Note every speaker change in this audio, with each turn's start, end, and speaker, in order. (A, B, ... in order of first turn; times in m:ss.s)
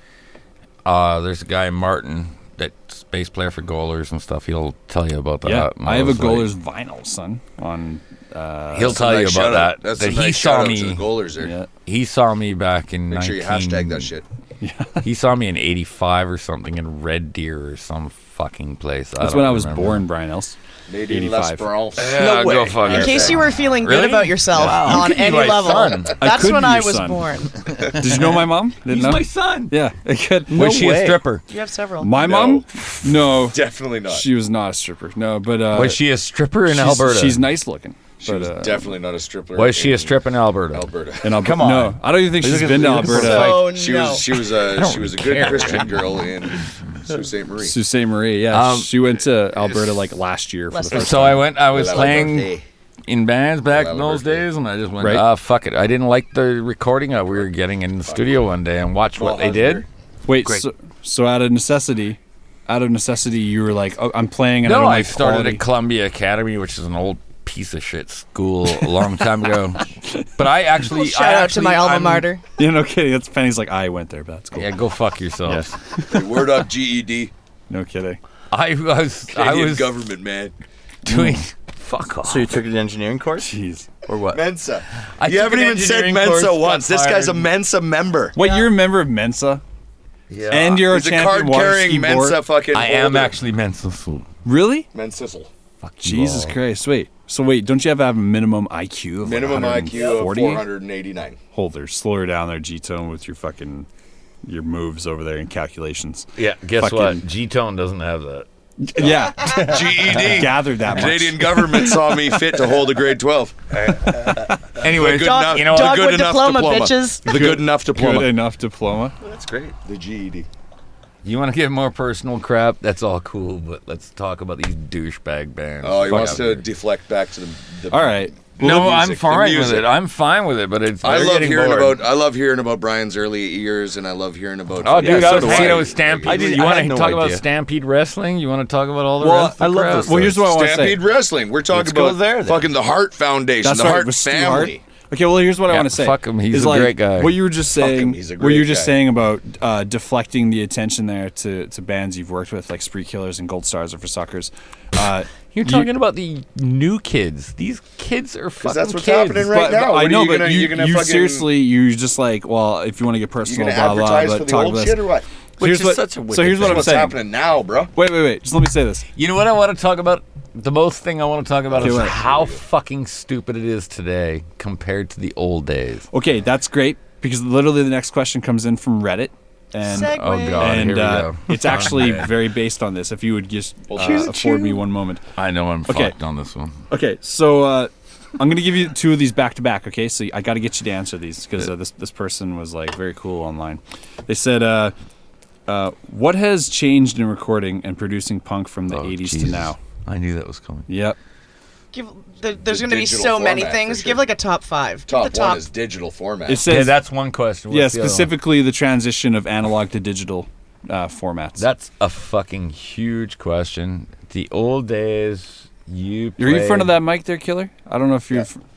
0:00.8-0:06.5 A
0:05.4-0:09.0 B
0:08.7-0:11.1 A
0:08.8-0:11.5 C
0:11.4-0:11.7 B
0:11.8-0:14.1 A
0:13.1-0:14.2 C
0:14.6-0:15.0 B
0:15.0-0:20.0 A
0:19.2-0:20.6 B
0:20.9-0:23.4 C
0:21.1-0:21.7 B
0:22.0-0:26.2 A
0:22.2-0:23.0 D
0:22.8-0:27.7 E
0:24.6-0:25.0 D
0:26.2-0:27.2 B
0:27.8-0:29.7 A
0:27.9-0:31.0 B
0:30.5-0:31.4 A
0:30.5-0:31.2 D
0:31.5-0:32.1 E
0:32.0-0:36.0 B
0:32.1-0:32.7 C
0:33.5-0:34.2 C
0:35.7-0:37.4 A
0:36.7-0:38.9 B
0:38.2-0:41.6 C
0:39.5-0:40.9 A
0:41.2-0:43.6 B
0:41.4-0:43.6 D
0:43.1-0:44.3 E
0:43.5-0:47.8 C
0:44.5-0:46.1 A
0:47.6-0:51.5 B
0:48.5-0:48.9 A
0:50.7-0:51.5 E
0:50.9-0:52.5 A
0:51.2-0:52.6 C
0:51.8-0:52.4 D
0:53.1-0:59.8 A
0:53.7-0:54.5 C
0:55.0-0:55.2 B
0:58.1-0:58.4 C
0:59.2-0:59.9 C
1:00.3-1:05.6 B
1:04.6-1:12.3 A
1:10.8-1:12.4 E
1:12.6-1:14.7 B
1:14.5-1:15.7 A
1:15.4-1:16.4 B
1:16.1-1:17.3 C
1:17.7-1:18.2 B
1:18.5-1:20.0 A
1:19.3-1:20.5 C
1:21.0-1:22.5 A
1:22.2-1:23.5 D
1:23.4-1:23.9 B
1:24.0-1:24.4 D
1:24.3-1:28.4 C
1:25.1-1:27.5 A
1:28.3-1:29.6 B
1:28.4-1:28.7 E
1:30.3-1:30.8 A
1:30.5-1:33.3 C
1:30.5-1:32.4 B
1:32.7-1:34.3 A
1:34.4-1:34.9 B
1:34.9-1:35.5 C
1:35.8-1:36.5 A
1:36.0-1:40.6 B
1:39.2-1:41.4 C
1:41.5-1:43.9 B
1:44.4-1:47.2 B
1:46.4-1:48.4 A
1:48.8-1:52.2 B
1:49.2-1:53.6 C
1:54.0-1:54.3 B
1:54.8-1:56.1 A
1:54.8-1:58.3 C
1:55.1-1:57.5 E
1:57.2-1:59.1 B
1:59.2-1:59.7 D
1:59.8-2:00.5 C
2:01.2-2:06.6 A
2:05.8-2:09.9 C
2:07.9-2:08.3 B
2:08.6-2:12.0 A
2:11.0-2:16.6 C
2:14.8-2:20.3 A
2:15.0-2:17.4 D
2:19.2-2:21.0 B
2:19.6-2:20.4 D
2:20.4-2:24.8 C
2:21.7-2:22.7 D
2:23.6-2:35.9 B
2:25.7-2:27.4 A
2:27.8-2:29.0 C
2:35.5-2:39.6 A
2:38.6-2:41.5 C
2:39.5-2:45.0 B
2:43.4-2:45.2 C
2:45.6-2:47.1 D
2:45.6-2:47.2 B
2:46.6-2:47.9 C
2:47.9-2:49.0 B
2:49.2-2:56.1 A
2:51.7-2:52.6 C
2:51.8-2:52.2 B
2:56.1-3:05.2 B
2:59.8-3:00.8 E
2:59.9-3:02.3 A
3:03.9-3:04.8 C
3:05.4-3:06.7 A
3:05.9-3:06.2 B
3:06.9-3:14.9 B
3:15.7-3:19.8 B
3:18.9-3:20.9 A
3:20.9-3:21.2 B
3:21.9-3:25.7 E
3:22.6-3:24.2 C
3:25.1-3:26.7 C
3:26.5-3:27.0 B
3:26.7-3:28.3 A
3:27.7-3:31.6 B
3:31.6-3:36.9 A
3:36.4-3:38.6 B